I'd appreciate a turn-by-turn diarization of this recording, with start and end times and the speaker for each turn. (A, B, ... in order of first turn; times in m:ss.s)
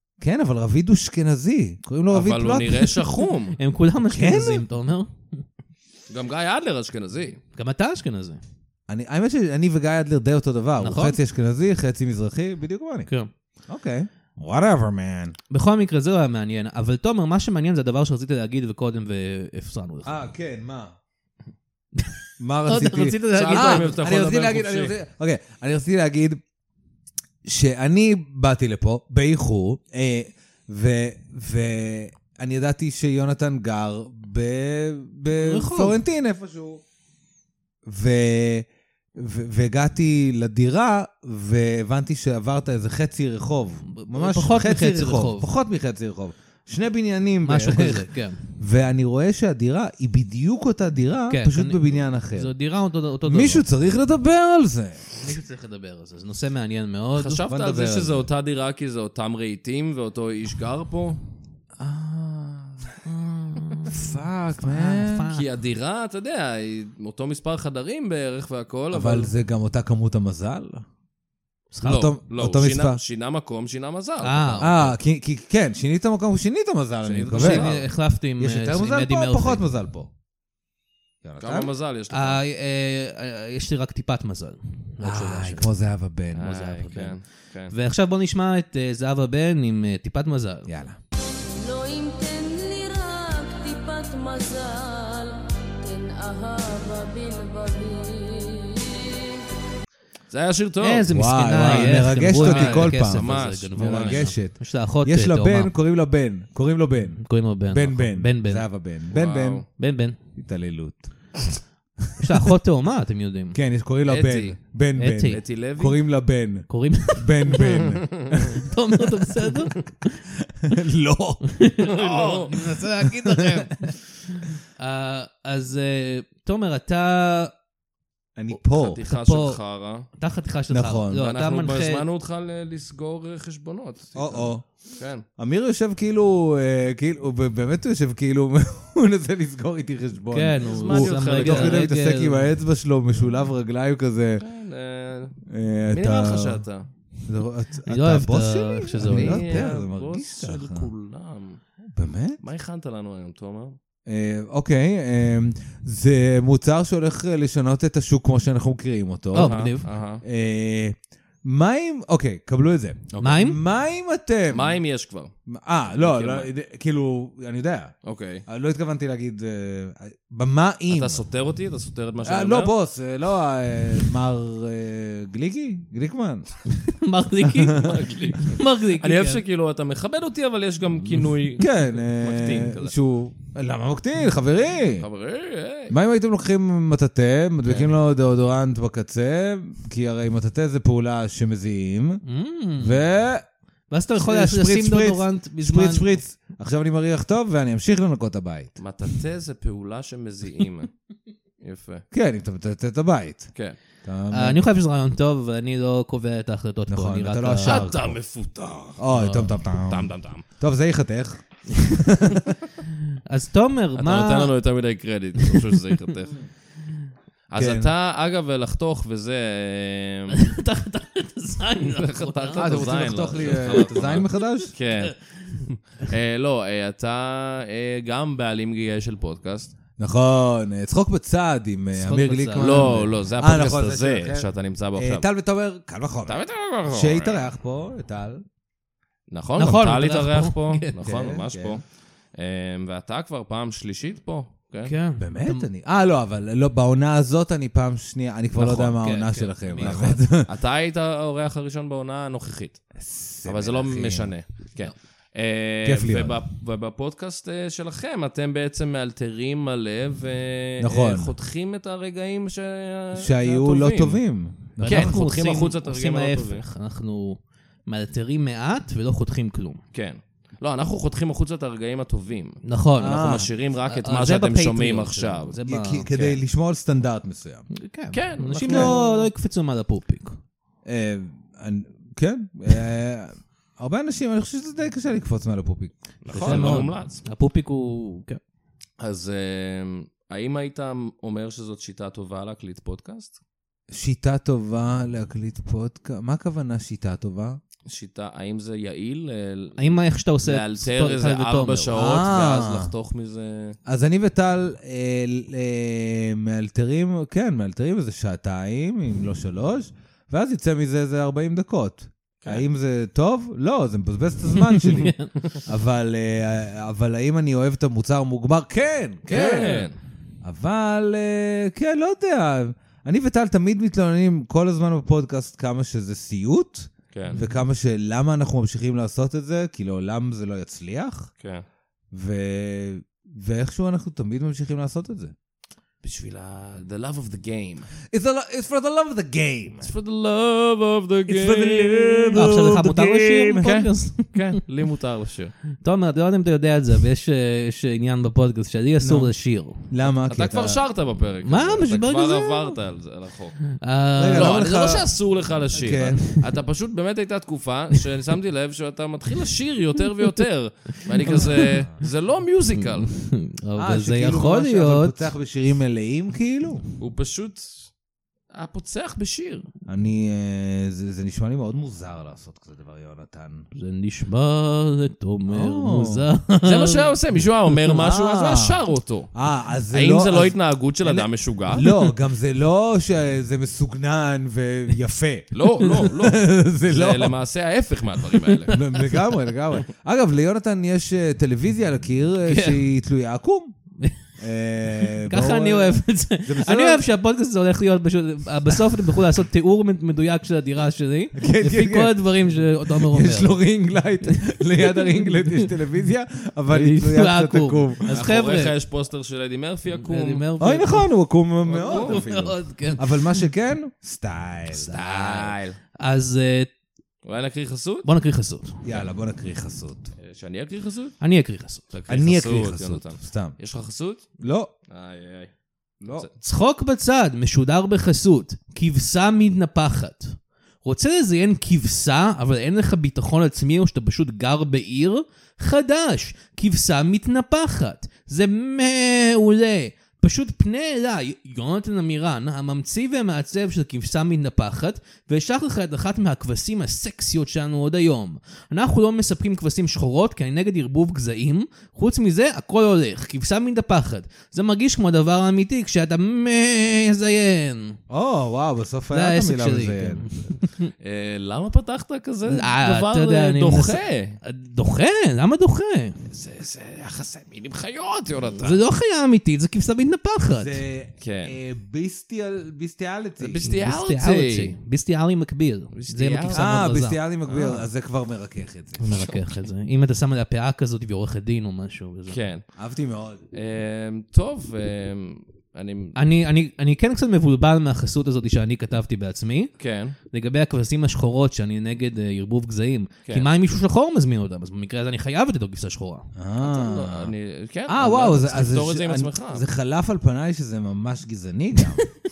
0:00.2-0:03.0 A
0:02.1-0:03.6 B
0:03.6-0:05.4 C
0:04.1-0:04.6 A
0:06.1-0:07.4 B
0:07.6-0:08.4 C
0:08.9-0:13.1 A
0:10.8-0:11.2 C
0:13.7-0:15.4 A
0:15.5-0:20.2 C
0:20.0-0:20.9 A
0:22.4-0:26.4 A
0:22.6-0:23.9 C
0:23.3-0:24.9 B
0:27.4-0:36.8 A
0:35.3-0:36.0 C
0:37.8-0:52.5 A
0:43.9-0:45.5 C
0:47.4-0:48.4 C
0:51.3-0:53.6 C
0:53.2-0:55.0 A
0:55.2-0:57.4 C
0:57.2-1:01.2 B
0:57.5-0:58.2 A
1:01.8-1:03.1 A
1:03.2-1:04.0 C
1:03.8-1:05.3 A
1:04.6-1:05.4 C
1:05.3-1:09.3 B
1:08.9-1:10.8 A
1:11.7-1:12.1 C
1:11.8-1:13.0 A
1:11.8-1:14.7 B
1:14.2-1:14.9 C
1:14.6-1:20.1 A
1:17.0-1:17.7 B
1:17.3-1:19.6 C
1:21.2-1:21.7 A
1:21.4-1:22.4 B
1:22.1-1:25.7 C
1:25.0-1:26.6 A
1:26.3-1:27.7 B
1:26.5-1:27.2 C
1:27.7-1:30.7 C
1:30.7-1:31.0 A
1:31.5-1:39.4 D
1:40.3-1:41.1 B
1:40.8-1:45.7 C
1:41.1-1:49.6 A
1:41.6-1:44.3 B
1:47.2-1:48.6 C
1:49.1-1:49.6 B
1:49.8-1:50.2 C
1:50.3-1:51.1 A
1:52.2-1:53.6 C
1:53.5-1:58.6 A
1:54.0-1:54.6 B
1:55.0-1:55.4 C
1:55.3-1:56.0 B
1:56.7-1:57.7 C
1:57.7-1:58.4 B
1:58.4-1:59.8 C
2:00.4-2:01.5 A
2:01.4-2:07.5 C
2:01.8-2:02.5 B
2:02.5-2:03.9 A
2:08.4-2:09.0 A
2:08.7-2:10.1 B
2:09.0-2:09.6 C
2:10.2-2:12.0 C
2:10.7-2:11.3 A
2:11.2-2:15.2 B
2:14.1-2:14.6 A
2:15.4-2:24.4 A
2:20.3-2:22.5 C
2:20.6-2:21.9 B
2:24.4-2:25.4 B
2:25.5-2:26.6 A
2:25.9-2:26.8 B
2:27.2-2:30.9 A
2:27.8-2:29.6 C
2:29.0-2:31.6 B
2:31.9-2:32.4 A
2:32.4-2:33.8 B
2:34.0-2:39.7 A
2:39.3-2:39.8 C
2:39.3-2:40.2 B
2:40.2-2:44.8 A
2:43.1-2:43.4 B
2:43.2-2:43.6 C
2:44.5-2:45.3 B
2:45.5-2:47.9 A
2:45.9-2:46.5 B
2:48.0-2:48.4 B
2:48.5-2:51.2 A
2:50.9-2:52.7 B
2:52.2-2:56.5 A
2:56.7-2:59.4 C
2:57.4-2:58.0 A
2:57.8-3:02.9 B
3:01.6-3:05.1 A
3:05.0-3:05.9 B
3:05.9-3:12.2 A
3:07.6-3:07.9 B
3:12.2-3:13.0 C
3:12.8-3:13.4 A
3:13.9-3:16.1 C
3:14.2-3:18.7 A
3:18.8-3:20.9 B
3:21.6-3:22.0 B
3:22.1-3:23.5 A
3:24.0-3:24.6 A
3:24.3-3:27.9 C
3:26.9-3:28.2 A
3:27.6-3:30.4 B
3:29.0-3:32.5 A
3:31.7-3:32.0 C
3:33.3-3:34.5 C
3:34.0-3:36.4 B
3:37.5-3:40.4 B
3:37.6-3:37.9 A
3:40.3-3:42.8 C
3:41.8-3:49.7 B
3:42.6-3:44.7 A
3:43.4-3:43.8 C
3:50.0-3:58.4 A
3:51.9-3:53.0 C
3:52.6-3:55.2 B
3:56.3-3:57.5 B
3:59.3-4:04.9 B
3:59.6-4:01.0 C
4:01.0-4:01.8 A
4:04.8-4:05.7 C
4:05.2-4:10.5 A
4:08.5-4:10.1 C
4:09.8-4:12.8 B
4:13.0-4:14.3 A
4:13.4-4:24.2 B
4:15.8-4:16.4 A
4:20.8-4:21.3 A
4:23.1-4:25.2 A
4:24.8-4:29.8 C
4:24.8-4:26.6 B
4:29.9-4:35.6 B
4:32.6-4:36.1 C
4:33.0-4:33.5 A
4:35.6-4:37.7 A
4:37.7-4:40.4 C
4:38.1-4:39.0 B
4:38.7-4:39.3 A
4:40.8-4:46.9 A
4:46.2-4:47.2 B
4:46.3-4:48.4 C
4:49.0-4:53.4 B
4:53.9-4:57.6 A
4:57.8-5:03.8 B
4:59.8-5:02.0 C
5:01.9-5:02.9 A
5:03.8-5:19.8 A
5:14.7-5:15.3 C
5:19.3-5:19.9 B
5:19.3-5:19.9 C
5:20.4-5:31.3 A
5:27.1-5:27.4 B
5:27.3-5:27.6 C
5:32.1-5:35.3 A
5:36.0-5:37.9 B
5:38.1-5:39.9 A
5:39.8-5:42.5 B
5:41.3-5:43.8 A
5:42.3-5:44.6 C
5:43.6-5:45.5 B
5:45.8-5:49.8 C
5:49.0-5:49.3 A
5:49.9-5:50.8 A
5:50.3-5:53.6 B
5:51.4-5:52.8 C
5:53.7-5:54.6 C
5:54.2-5:55.1 A
5:54.3-6:03.1 B
5:55.7-5:56.2 A
6:01.1-6:01.8 C
6:01.2-6:01.9 A
6:02.8-6:05.2 C
6:03.8-6:06.8 A
6:07.0-6:07.9 B
6:08.5-6:09.6 B
6:09.9-6:13.6 A
6:13.7-6:17.1 C
6:15.5-6:16.2 A
6:16.6-6:19.3 B
6:17.9-6:18.8 A
6:19.3-6:27.3 A
6:19.9-6:21.9 B
6:25.5-6:28.8 B
6:28.7-6:33.7 A
6:32.4-6:32.8 C
6:34.4-6:37.1 A
6:35.2-6:43.6 C
6:41.4-6:42.2 A
6:42.9-6:48.2 A
6:44.3-6:45.7 C
6:46.7-6:48.7 C
6:48.1-6:50.5 B
6:49.9-6:51.1 C
6:50.6-6:55.0 A
6:51.7-6:52.2 B
6:51.8-6:53.5 C
6:54.7-6:56.7 C
6:54.9-6:55.8 B
6:57.2-6:58.1 B
6:58.0-6:58.8 C
6:58.8-7:00.1 A
7:00.2-7:01.2 B
7:01.2-7:01.8 C
7:01.9-7:04.3 B
7:02.1-7:03.5 A
7:04.4-7:04.7 A
7:04.9-7:05.5 B
7:06.0-7:06.3 A
7:06.4-7:38.0 C
7:38.1-7:40.3 A
7:39.1-7:40.9 C
7:41.0-7:44.4 B
7:42.5-7:46.2 C
7:46.3-7:48.8 B
7:48.6-7:50.8 C
7:50.5-7:53.6 A
7:51.2-7:51.6 B
7:53.4-7:54.7 B
7:53.6-7:57.2 C
7:55.9-7:56.6 B
7:56.5-7:59.0 A
7:57.5-7:57.8 B
7:59.0-8:02.4 C
7:59.2-7:59.4 B
8:02.3-8:02.6 B
8:02.8-8:03.4 A
8:03.5-8:06.2 B
8:06.2-8:09.7 C
8:09.8-8:10.2 B
8:10.3-8:16.3 C
8:16.4-8:17.3 A
8:16.6-8:19.6 B
8:17.9-8:22.1 A